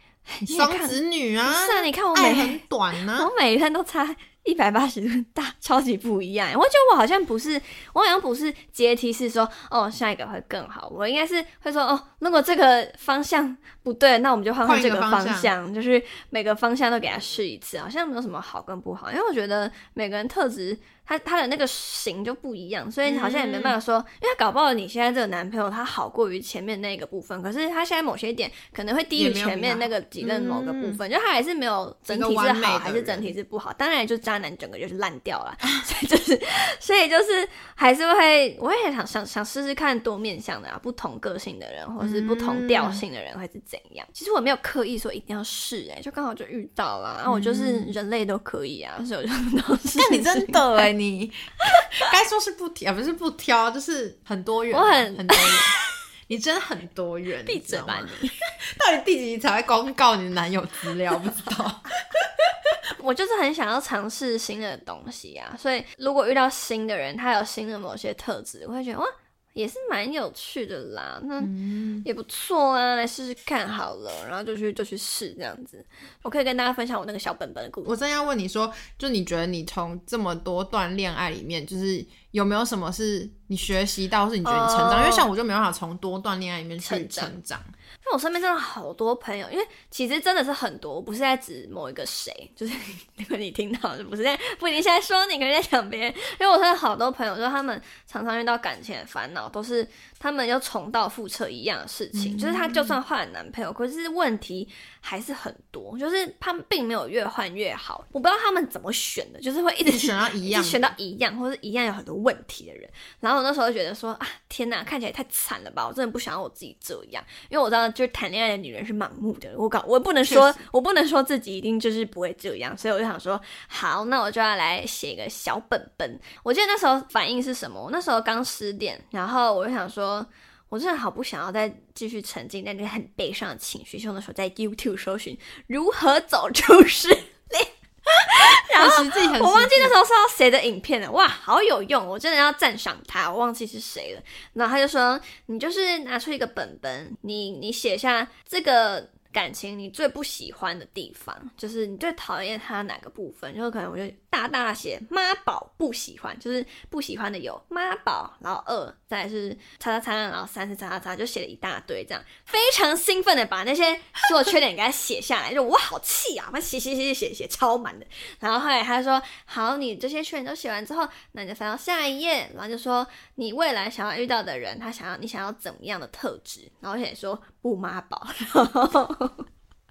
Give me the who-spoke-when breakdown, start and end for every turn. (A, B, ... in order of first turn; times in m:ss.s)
0:00.3-0:02.6 A
0:00.4-0:03.3 B
0:03.1-0:50.9 A
0:14.6-0:15.5 B
0:23.0-0:23.8 B
0:29.2-0:31.0 B
0:32.1-0:33.3 B
0:42.0-0:43.0 B
0:47.3-0:47.9 B
0:50.0-0:51.4 B
0:52.0-0:55.8 B
0:54.7-0:55.6 A
0:56.3-0:58.1 B
0:57.5-0:58.3 A
0:58.8-1:02.5 B
1:03.0-1:11.5 A
1:11.4-1:12.0 B
1:12.0-1:18.0 A
1:17.8-1:27.7 B
1:24.4-1:25.3 A
1:26.8-1:27.3 A
1:28.0-2:59.5 A
1:42.1-1:43.0 B
1:49.8-1:51.0 B
2:00.2-2:00.6 B
2:18.3-2:20.0 B